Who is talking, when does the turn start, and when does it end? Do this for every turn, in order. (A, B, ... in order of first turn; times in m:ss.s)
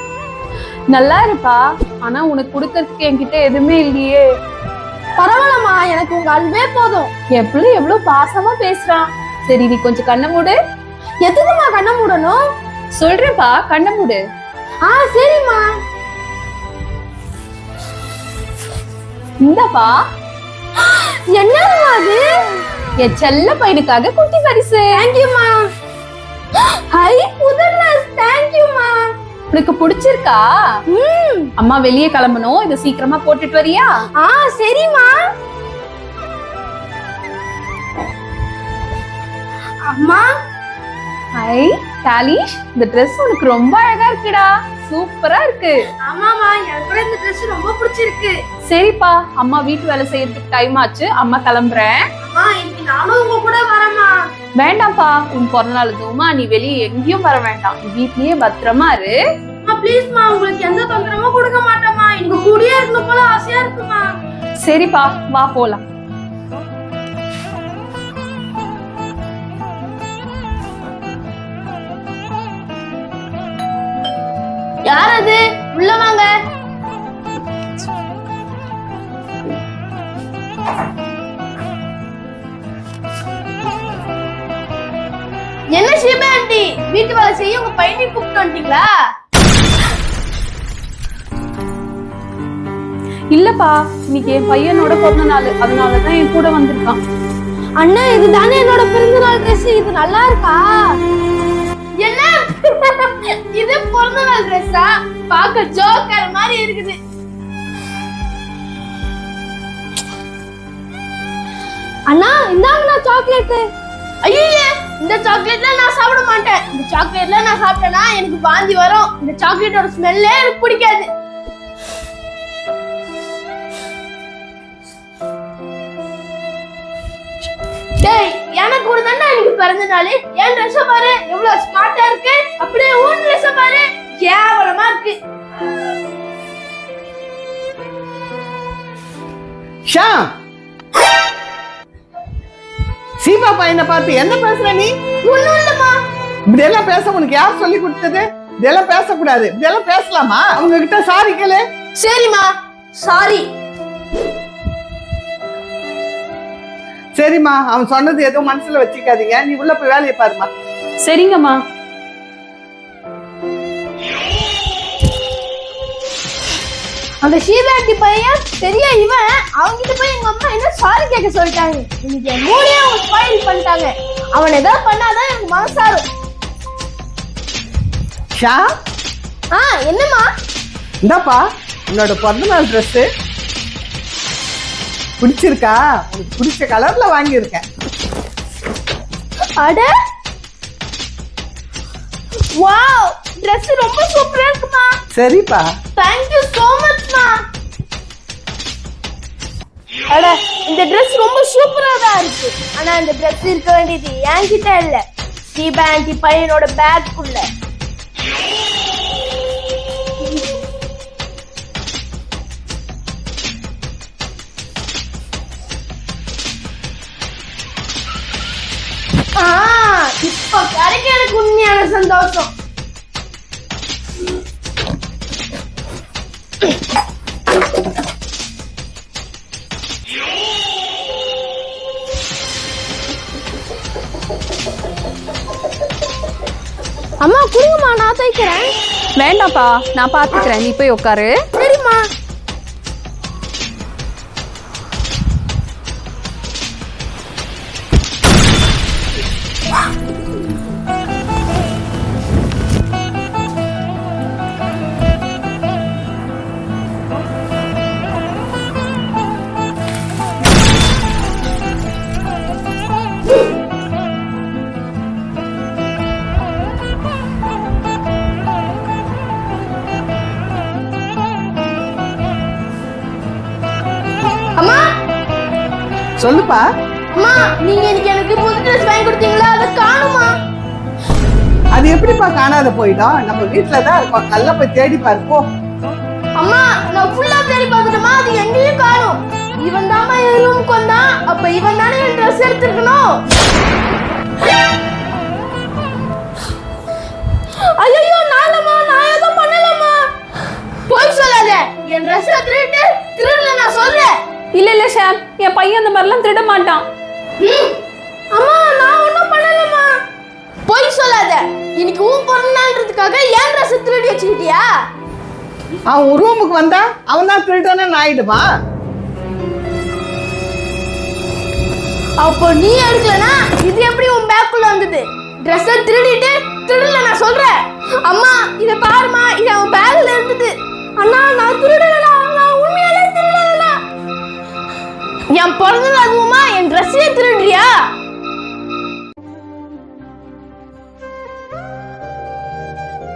0:00.9-0:04.2 A
0:05.2-0:07.1 B
0:07.3-0:10.6 A
0:11.2-0:12.5 B
0:13.0-0:14.2 A
0:14.8-0:15.7 B
0:19.4-0:20.0 A
0:20.8-0:22.6 B
0:23.0-0:24.9 A
0:24.9-0:25.6 B
0:26.6-0:29.1 B
0:29.5-0:30.4 A
0:30.9-0:31.5 B
0:31.6-0:34.0 A
0:34.2-0:35.2 B
0:39.8-0:40.3 B
0:41.4-0:45.8 A
0:46.0-0:48.4 B
0:48.7-0:52.0 A
0:52.2-0:54.1 B
0:54.6-0:59.2 A
0:59.6-1:04.1 B
1:04.6-1:05.8 A
1:14.8-1:16.3 B
1:25.7-1:28.9 B
1:33.3-1:37.0 A
1:37.8-1:41.0 B
1:42.0-1:47.0 B
1:52.1-1:53.6 B
1:54.2-2:01.1 B
2:08.0-2:15.2 B
2:19.9-2:20.3 C
2:23.2-2:24.9 C
2:25.2-2:26.0 B
2:26.5-2:31.6 C
2:32.0-2:33.5 B
2:37.2-2:40.5 C
2:41.0-2:41.6 A
2:47.2-2:56.0 B
2:58.4-2:58.7 C
2:59.5-3:00.3 B
3:01.0-3:03.0 C
3:05.2-3:07.6 C
3:09.6-3:09.9 B
3:12.5-3:15.0 B
3:15.1-3:15.7 C
3:16.0-3:17.4 B
3:20.1-3:27.5 B
3:39.4-3:42.5 B
3:57.2-3:58.7 B
3:59.2-4:01.4 A
4:01.5-4:02.1 B
4:34.6-4:34.9 B
4:36.2-4:36.6 C
4:37.1-4:40.3 B
4:41.8-4:45.5 C
4:46.4-4:53.2 B
4:57.8-5:00.0 B
5:00.9-5:04.1 B
5:04.5-5:06.8 A
5:07.4-5:07.8 B
5:08.3-5:10.0 B
5:10.7-5:14.7 B
5:15.9-5:18.5 C
5:22.2-5:33.8 B
5:35.3-5:37.8 B